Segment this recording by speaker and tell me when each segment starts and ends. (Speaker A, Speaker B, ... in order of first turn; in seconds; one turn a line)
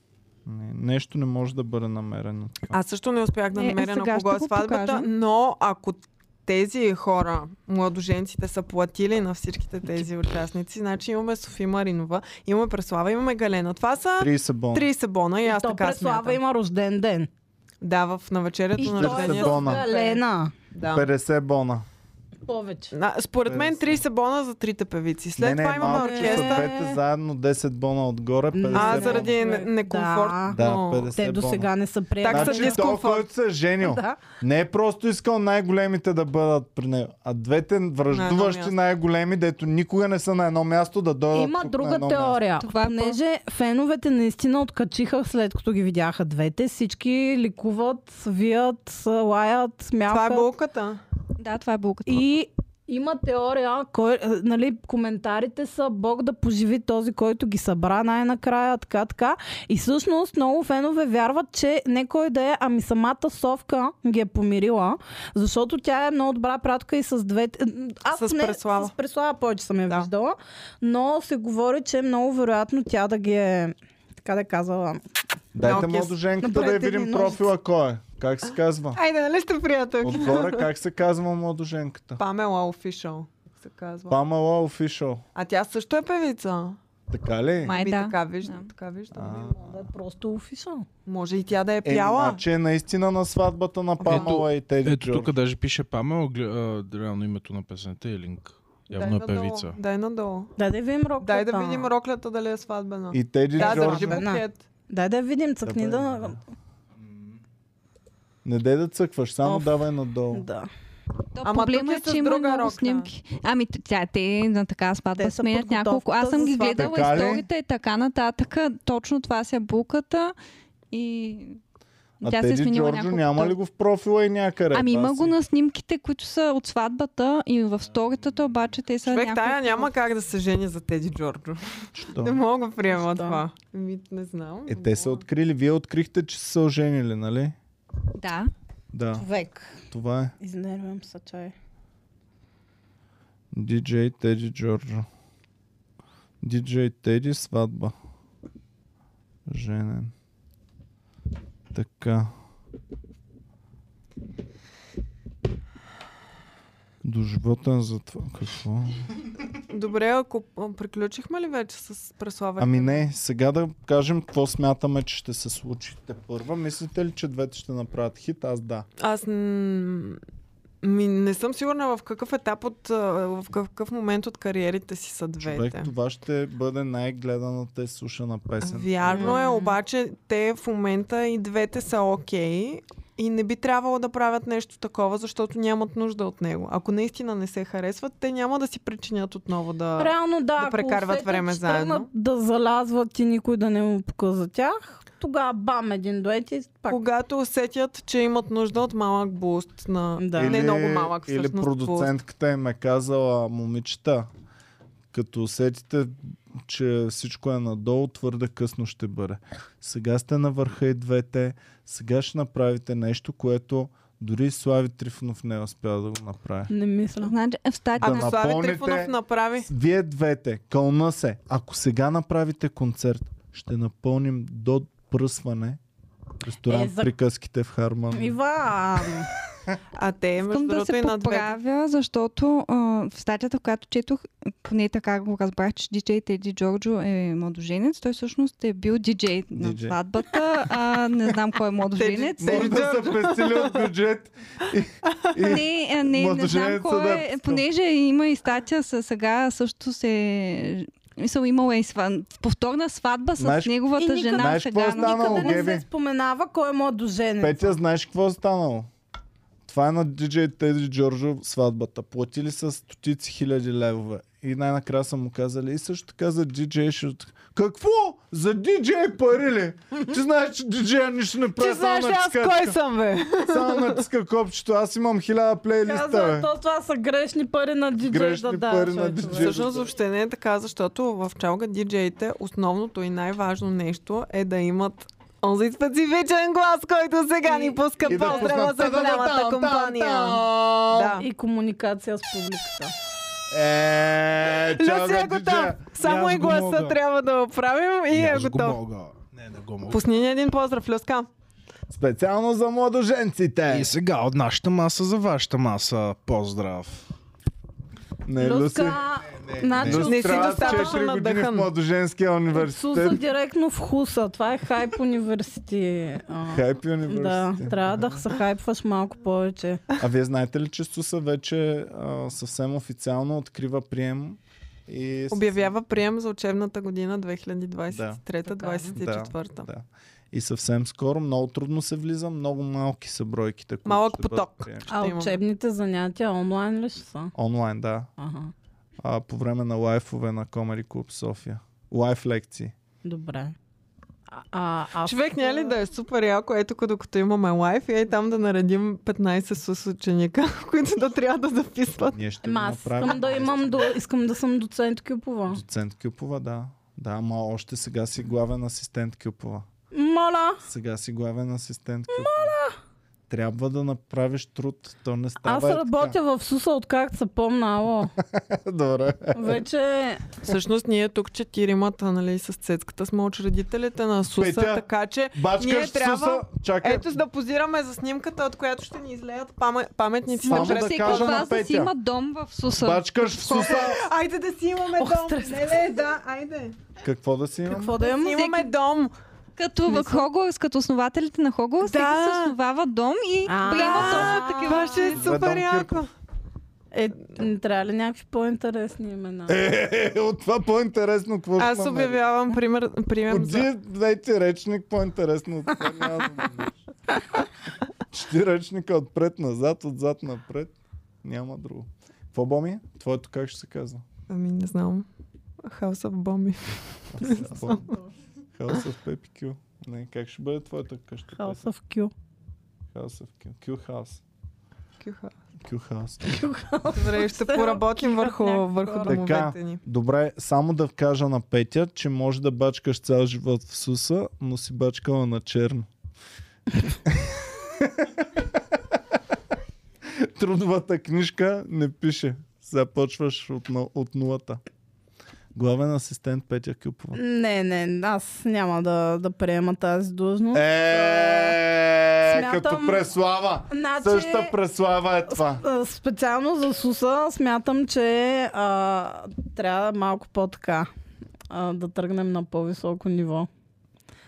Speaker A: 0.5-2.8
Speaker B: 2.7-16.4
Speaker C: 3.5-5.1
Speaker A: 14.2-14.9
Speaker D: 15.4-17.3
Speaker B: 17.8-20.2
Speaker D: 18.8-20.5
Speaker A: 18.8-19.8
Speaker B: 20.7-21.1
Speaker A: 20.9-21.9
Speaker D: 22.4-22.9
Speaker B: 22.9-26.7
Speaker A: 23.5-24.0
Speaker A: 25.4-29.4
Speaker D: 25.8-27.0
Speaker D: 28.5-33.0
Speaker B: 28.7-31.1
Speaker A: 30.5-31.7
Speaker B: 32.2-33.3
Speaker A: 32.3-42.4
Speaker D: 33.8-34.2
Speaker B: 38.1-38.8
Speaker D: 41.3-50.5
Speaker C: 42.6-43.2
Speaker B: 50.1-51.0
Speaker C: 51.4-52.3
Speaker D: 52.1-75.0
Speaker B: 68.1-68.9
Speaker A: 75.5-79.0
Speaker B: 75.6-76.2
Speaker D: 76.4-77.5
Speaker B: 79.0-80.7
Speaker A: 80.0-82.2
Speaker B: 82.2-84.2
Speaker A: 84.1-85.2
Speaker B: 85.3-86.8
Speaker A: 87.1-87.8
Speaker C: 87.7-88.7
Speaker B: 87.7-89.7
Speaker A: 89.1-89.8
Speaker D: 89.6-90.9
Speaker B: 91.1-92.4
Speaker A: 91.8-95.3
Speaker B: 94.0-94.4
Speaker E: 94.1-99.8
Speaker B: 98.9-100.5
Speaker D: 100.6-101.9
Speaker B: 101.2-104.6
Speaker A: 103.1-104.2
Speaker D: 103.6-106.4
Speaker A: 105.7-106.4
Speaker A: 108.4-110.5
Speaker D: 109.4-110.7
Speaker C: 111.3-120.3
Speaker B: 111.4-113.1
Speaker D: 115.2-117.3
Speaker A: 116.8-117.5
Speaker C: 120.9-121.6
Speaker C: 122.2-123.6
Speaker A: 122.2-125.3
Speaker C: 124.7-129.9
Speaker B: 129.0-135.2
Speaker A: 131.9-132.4
Speaker D: 132.9-133.4
Speaker A: 134.7-137.6
Speaker C: 138.2-138.5
Speaker A: 138.9-139.3
Speaker D: 139.2-139.8
Speaker A: 139.9-140.3
Speaker D: 140.4-141.5
Speaker A: 143.5-145.1
Speaker A: 146.4-147.9
Speaker A: 149.5-150.1
Speaker A: 151.7-152.3
Speaker A: 157.0-159.1
Speaker B: 159.7-163.0
Speaker A: 162.6-168.9
Speaker B: 169.0-170.2
Speaker B: 170.8-175.9
Speaker A: 175.4-179.4
Speaker B: 178.6-192.1
Speaker D: 179.1-179.8
Speaker D: 190.0-197.0
Speaker B: 196.9-202.1
Speaker D: 200.2-200.7
Speaker A: 200.3-204.3
Speaker A: 205.1-216.7
Speaker D: 216.7-217.3
Speaker C: 217.2-218.3
Speaker A: 218.0-219.1
Speaker B: 218.0-219.7
Speaker A: 219.7-225.8
Speaker A: 226.4-228.4
Speaker D: 226.7-227.1
Speaker D: 228.1-229.3
Speaker B: 229.9-231.5
Speaker C: 230.4-242.8
Speaker A: 239.6-240.0
Speaker B: 242.0-243.9
Speaker A: 242.4-247.6
Speaker C: 245.4-255.7
Speaker A: 253.4-253.8
Speaker D: 253.9-257.8
Speaker A: 254.3-255.8
Speaker A: 257.4-258.9
Speaker A: 259.7-272.8
Speaker B: 271.6-274.0
Speaker A: 273.4-276.5
Speaker D: 275.8-279.6
Speaker A: 278.0-279.9
Speaker B: 279.3-291.3
Speaker D: 287.5-288.5
Speaker A: 288.1-291.1
Speaker D: 291.2-292.9
Speaker A: 293.5-295.9
Speaker B: 294.8-298.8
Speaker E: 296.0-297.0
Speaker E: 298.1-300.0
Speaker B: 299.9-301.3
Speaker A: 301.9-303.9
Speaker E: 303.7-307.0
Speaker A: 308.2-313.2
Speaker D: 308.4-311.0
Speaker E: 309.7-310.1
Speaker B: 310.0-311.7
Speaker D: 312.5-319.8
Speaker A: 316.5-318.3
Speaker A: 320.0-325.7
Speaker B: 325.3-329.7
Speaker A: 327.9-328.2
Speaker D: 328.5-329.0
Speaker A: 328.9-334.9
Speaker B: 333.9-335.4
Speaker D: 334.9-337.3
Speaker A: 337.4-338.1
Speaker D: 338.2-338.5
Speaker A: 339.0-342.7
Speaker D: 343.0-343.6
Speaker D: 344.3-345.8
Speaker B: 345.0-352.2
Speaker A: 352.1-353.9
Speaker D: 352.4-355.6
Speaker A: 355.5-359.7
Speaker D: 359.9-360.6
Speaker A: 360.6-362.6
Speaker D: 362.1-362.8
Speaker A: 363.3-366.2
Speaker D: 365.4-368.1
Speaker A: 368.2-369.6
Speaker D: 369.4-370.2
Speaker B: 370.4-381.5
Speaker A: 374.4-377.1
Speaker C: 380.4-383.9
Speaker A: 380.5-381.9
Speaker A: 382.7-384.0
Speaker B: 383.4-386.8
Speaker D: 385.0-385.9
Speaker A: 387.0-387.9
Speaker D: 387.7-388.4
Speaker B: 387.9-389.1
Speaker C: 388.3-388.7
Speaker C: 389.6-395.2
Speaker D: 389.9-390.3
Speaker B: 391.8-392.6
Speaker D: 393.5-395.1
Speaker B: 393.7-396.1
Speaker A: 395.1-396.1
Speaker D: 396.9-399.6
Speaker A: 399.5-402.2
Speaker B: 401.6-403.7
Speaker A: 403.3-406.8
Speaker A: 408.1-414.0
Speaker B: 414.3-415.1
Speaker B: 415.6-417.8
Speaker A: 417.1-417.9
Speaker D: 417.3-418.0
Speaker A: 418.6-421.7
Speaker D: 421.4-422.1
Speaker A: 422.9-424.2
Speaker B: 425.0-425.3
Speaker A: 425.6-426.4
Speaker D: 426.2-429.2
Speaker B: 426.9-429.8
Speaker A: 429.1-435.9
Speaker A: 437.1-438.3
Speaker A: 440.1-444.6
Speaker A: 445.5-447.2
Speaker D: 447.1-451.6
Speaker A: 450.5-455.6
Speaker D: 452.2-453.1
Speaker D: 453.7-454.6
Speaker D: 455.3-460.9
Speaker D: 461.5-463.5